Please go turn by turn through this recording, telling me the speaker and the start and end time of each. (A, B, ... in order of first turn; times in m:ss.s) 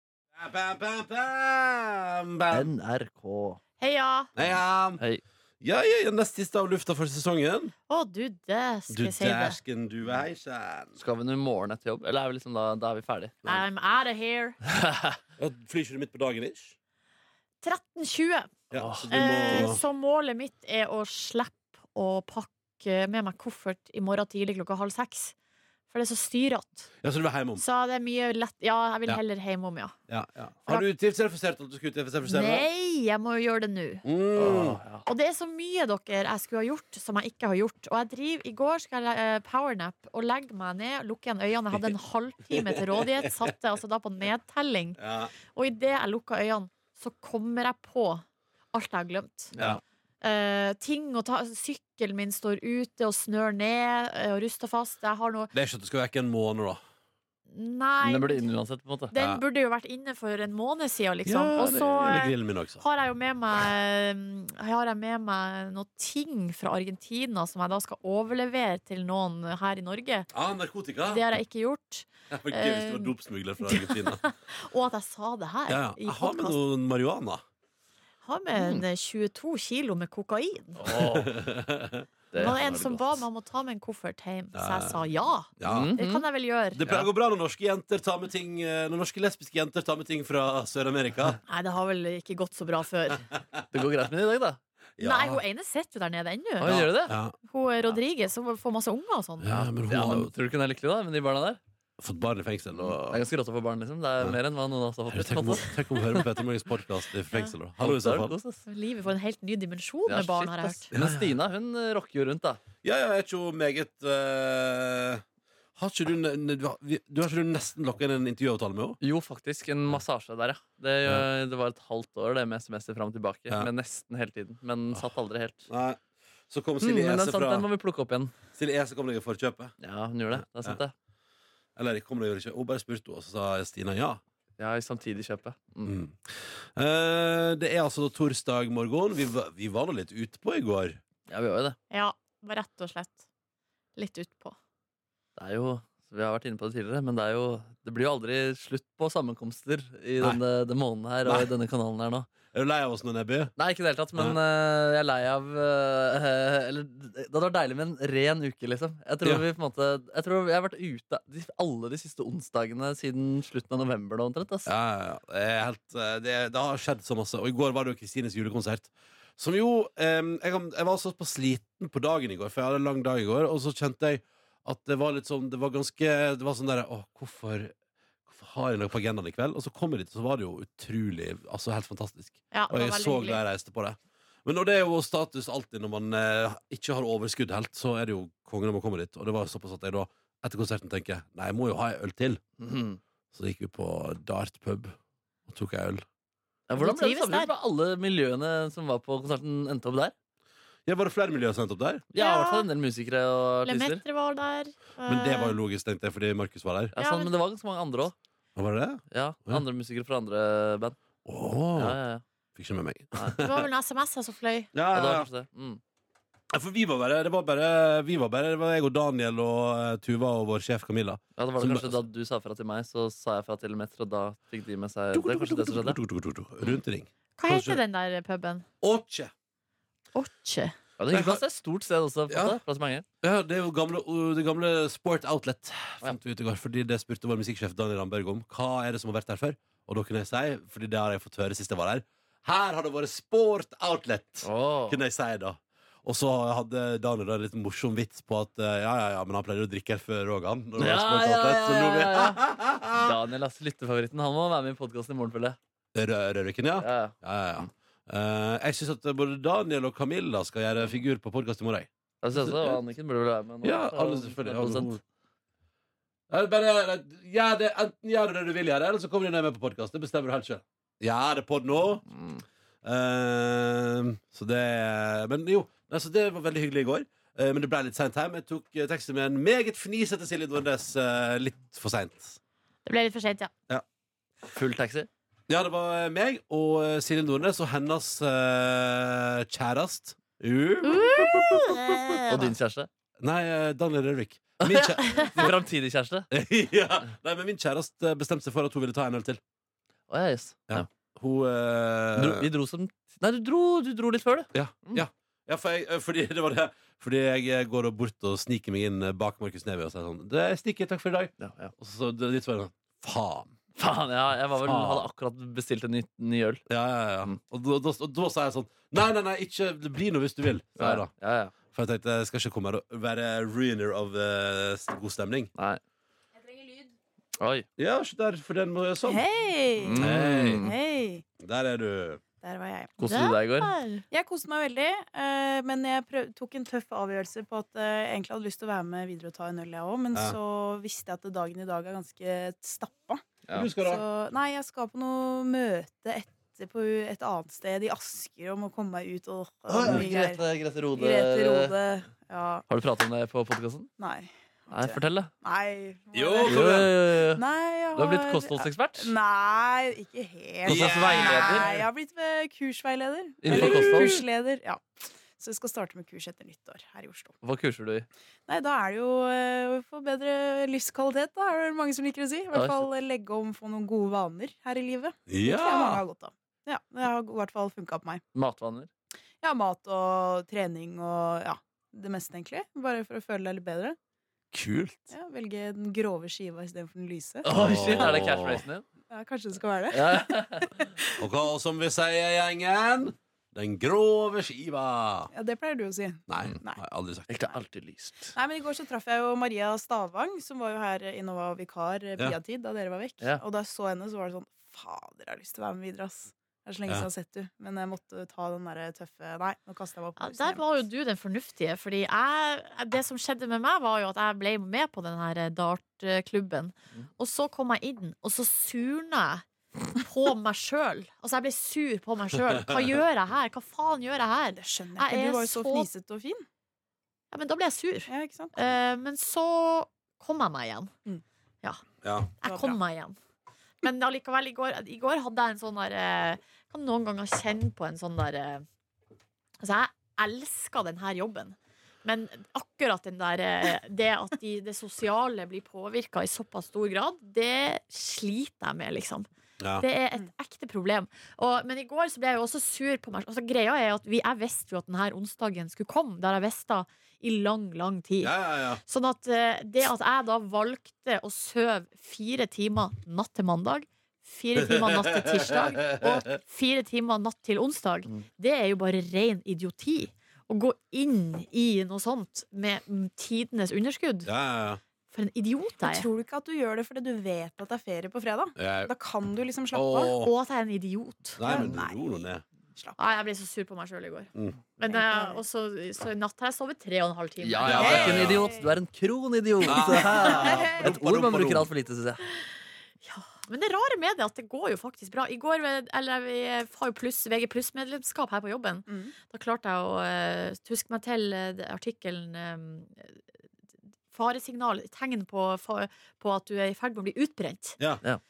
0:00.3-0:02.7 A
0:02.5-0:03.6 B
0:03.8-0:04.3 C
0:04.4-0:05.0 A
0:05.6-0:07.7 A
0:07.9-0:09.6 C
0:08.9-0:11.0 A
0:11.0-0:13.4 B
0:13.4-0:14.6 C
0:14.7-0:15.2 B
0:15.4-0:16.8 A
0:17.6-0:18.5 C
0:18.7-0:19.8 A
0:18.8-0:19.7 B
0:19.1-0:25.4 C
0:25.9-0:26.9 C
0:27.0-0:27.6 A
0:27.6-0:30.0 C
0:30.1-0:32.6 A
0:32.2-0:34.0 C
0:34.0-0:34.8 A
0:34.4-0:35.0 B
0:35.1-0:45.0 C
0:42.5-0:43.4 A
0:45.0-0:45.3 A
0:45.5-0:49.5 C
0:49.5-0:49.8 B
0:50.2-0:55.5 C
0:55.5-0:56.8 A
0:57.5-0:58.5 C
0:58.0-0:59.1 B
0:59.1-1:10.3 C
0:59.1-0:59.4 A
1:01.3-1:02.8 A
1:10.3-1:11.3 A
1:11.1-1:16.6 C
1:12.3-1:14.2 A
1:15.7-1:17.4 A
1:18.2-1:20.8 C
1:18.6-1:18.8 B
1:20.8-1:21.4 B
1:20.8-1:22.8 A
1:22.3-1:23.2 B
1:22.4-1:26.8 C
1:24.6-1:25.0 A
1:25.6-1:25.9 A
1:25.6-1:26.3 B
1:26.7-1:31.4 A
1:31.5-1:33.3 C
1:33.7-1:34.6 B
1:35.0-1:35.4 A
1:35.0-1:36.9 C
1:36.6-1:37.2 B
1:36.6-1:37.4 A
1:37.5-1:39.5 C
1:39.4-1:40.3 A
1:39.5-1:41.6 B
1:42.0-1:43.2 A
1:42.8-1:45.8 B
1:45.1-1:48.4 A
1:47.8-1:48.6 B
1:48.7-1:50.9 C
1:50.1-1:52.6 B
1:50.9-1:51.3 A
1:52.8-1:55.2 A
1:55.8-1:59.0 A
1:59.0-2:05.7 B
2:05.7-2:07.7 A
2:06.8-2:08.3 B
2:08.6-2:09.8 A
2:09.8-2:10.9 B
2:10.4-2:10.8 A
2:11.8-2:14.2 A
2:14.6-2:16.0 B
2:15.8-2:21.0 A
2:21.3-2:21.8 B
2:21.9-2:23.2 C
2:24.0-2:24.6 C
2:25.4-2:32.3 B
2:31.2-2:31.5 A
2:32.5-2:33.5 A
2:33.6-2:44.7 B
2:44.7-2:57.7 A
2:58.3-3:12.4 A
3:02.5-3:03.4 C
3:12.6-3:13.0 B
3:13.3-3:15.0 A
3:15.5-3:16.0 A
3:16.7-3:20.1 B
3:16.8-3:17.5 C
3:20.9-3:22.1 A
3:22.1-3:24.0 B
3:22.2-3:22.7 C
3:23.6-3:25.6 C
3:25.1-3:26.9 A
3:26.9-3:28.2 B
3:27.0-3:27.3 C
3:28.6-3:29.6 A
3:29.1-3:31.0 B
3:31.2-3:32.0 A
3:31.8-3:32.2 B
3:32.6-3:33.7 A
3:33.2-3:33.4 B
3:33.4-3:34.7 C
3:34.7-3:35.3 A
3:34.9-3:35.8 B
3:36.5-3:42.0 A
3:41.4-3:46.0 B
3:45.1-3:47.8 A
3:47.4-3:48.7 C
3:48.8-3:49.3 A
3:50.2-3:50.8 C
3:51.0-3:53.0 B
3:51.1-3:51.4 A
3:52.3-3:52.6 A
3:53.2-4:13.2 A
4:04.4-4:05.0 B
4:10.8-4:12.4 B
4:12.9-4:15.6 B
4:16.0-4:22.8 A
4:16.8-4:17.7 B
4:22.2-4:24.9 B
4:23.6-4:25.0 A
4:26.3-4:32.1 A
4:32.1-4:32.4 B
4:32.8-4:42.4 A
4:42.9-4:43.5 C
4:44.5-4:45.1 B
4:45.5-4:52.2 A
4:50.8-4:52.5 C
4:52.3-4:52.9 B
4:53.2-4:55.6 A
4:54.6-4:56.3 B
4:56.3-4:59.4 A
5:00.1-5:00.9 B
5:00.7-5:02.5 A
5:02.2-5:05.0 B
5:04.5-5:13.5 A
5:11.4-5:11.7 B
5:13.8-5:16.6 B
5:14.6-5:15.1 A
5:16.7-5:21.1 A
5:20.8-5:21.5 B
5:21.7-5:25.5 A
5:27.4-5:27.7 B
5:27.8-5:29.2 A
5:29.1-5:31.2 D
5:29.8-5:30.8 B
5:30.0-5:30.7 A
5:31.4-5:32.2 A
5:32.4-5:33.0 D
5:33.0-5:33.7 B
5:33.0-5:34.0 C
5:34.1-5:50.4 D
5:43.5-5:44.0 A
5:49.7-5:51.8 B
5:50.9-5:52.6 D
5:52.7-5:53.9 B
5:54.0-6:07.4 D
5:54.7-5:55.3 B
5:56.1-5:56.9 A
5:56.4-5:59.1 B
6:00.7-6:01.7 A
6:00.7-6:01.9 B
6:03.4-6:04.2 A
6:03.4-6:04.2 B
6:07.4-6:08.1 B
6:08.5-6:18.2 D
6:12.5-6:12.9 B
6:15.3-6:16.0 A
6:18.3-6:18.9 B
6:19.4-6:24.0 D
6:24.5-6:25.1 A
6:25.1-6:28.3 D
6:27.4-6:28.8 B
6:27.5-6:28.6 A
6:29.1-6:31.2 D
6:29.9-6:30.8 B
6:31.2-6:35.3 A
6:35.3-6:36.8 D
6:36.3-6:37.3 A
6:37.3-6:38.4 B
6:38.4-6:50.6 D
6:50.2-7:05.9 C
7:02.5-7:02.8 A
7:04.6-7:06.4 D
7:07.3-7:10.9 C
7:08.1-7:08.6 D
7:12.0-7:12.3 A
7:12.4-7:13.2 C
7:12.5-7:12.8 D
7:13.8-7:18.6 C
7:19.6-7:54.3 C
7:29.6-7:29.8 A
7:38.2-7:38.8 A
7:44.6-7:46.3 A
7:54.3-7:54.8 A
7:55.1-7:56.1 C
7:55.8-8:00.1 D
7:58.6-7:58.9 A
7:59.7-8:00.3 A
8:00.2-8:01.4 C
8:01.4-8:02.4 A
8:01.4-8:03.0 D
8:03.0-8:08.0 C
8:04.9-8:05.4 D
8:07.4-8:12.2 B
8:07.6-8:08.5 A
8:07.7-8:08.7 D
8:09.6-8:11.7 A
8:09.6-8:10.9 D
8:13.0-8:23.2 C
8:18.9-8:19.1 D
8:24.1-8:27.8 C